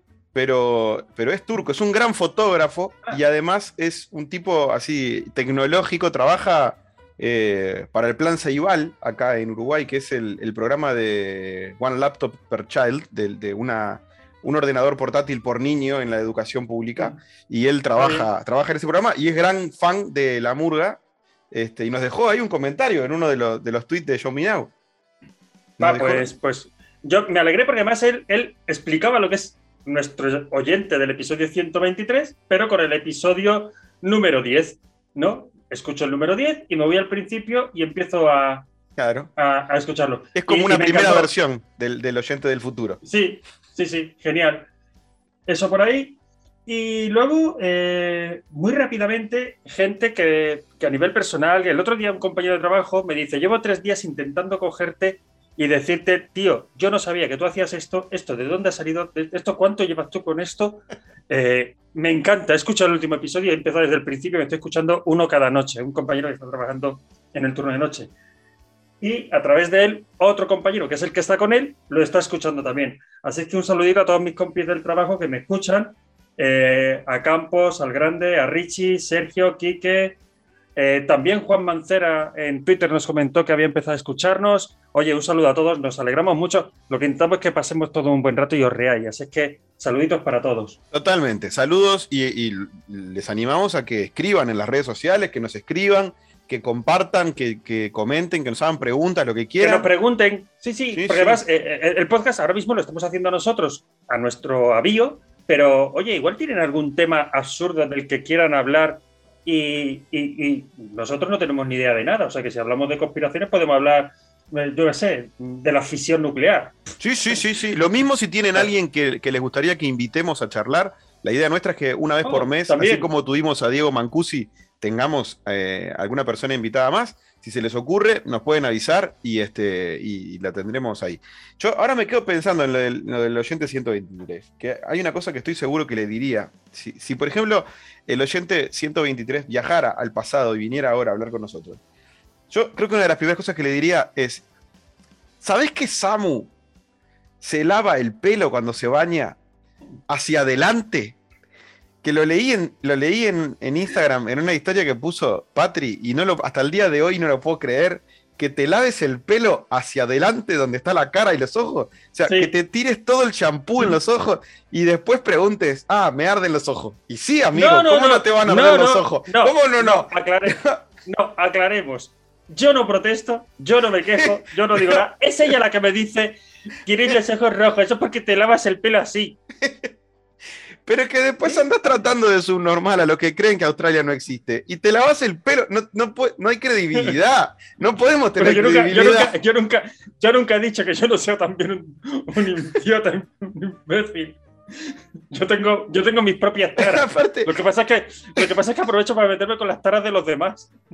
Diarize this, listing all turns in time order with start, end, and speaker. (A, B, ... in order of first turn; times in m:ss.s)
0:00.3-0:21.0 A
0:18.0-0:18.3 B
0:21.5-0:24.7 A
0:25.8-0:26.3 A
0:25.8-0:38.7 B
0:39.0-0:39.3 A
0:39.4-0:41.3 B
0:40.4-0:43.0 A
0:43.0-0:44.7 B
0:45.5-1:08.1 B
1:09.0-1:20.2 B
1:20.8-1:30.8 B
1:30.9-1:39.9 A
1:39.6-1:56.8 B
1:40.9-1:41.4 A
1:57.0-2:21.8 A
2:02.2-2:03.1 B
2:22.5-2:24.4 A
2:25.4-2:26.5 A
2:27.4-2:29.4 A
2:30.1-2:31.2 A
2:32.0-2:50.8 A
2:42.3-2:42.5 B
2:47.5-2:59.4 B
2:54.2-2:55.0 A
2:59.6-2:59.9 A
3:00.9-3:09.3 A
3:08.4-3:20.7 B
3:16.8-3:17.5 A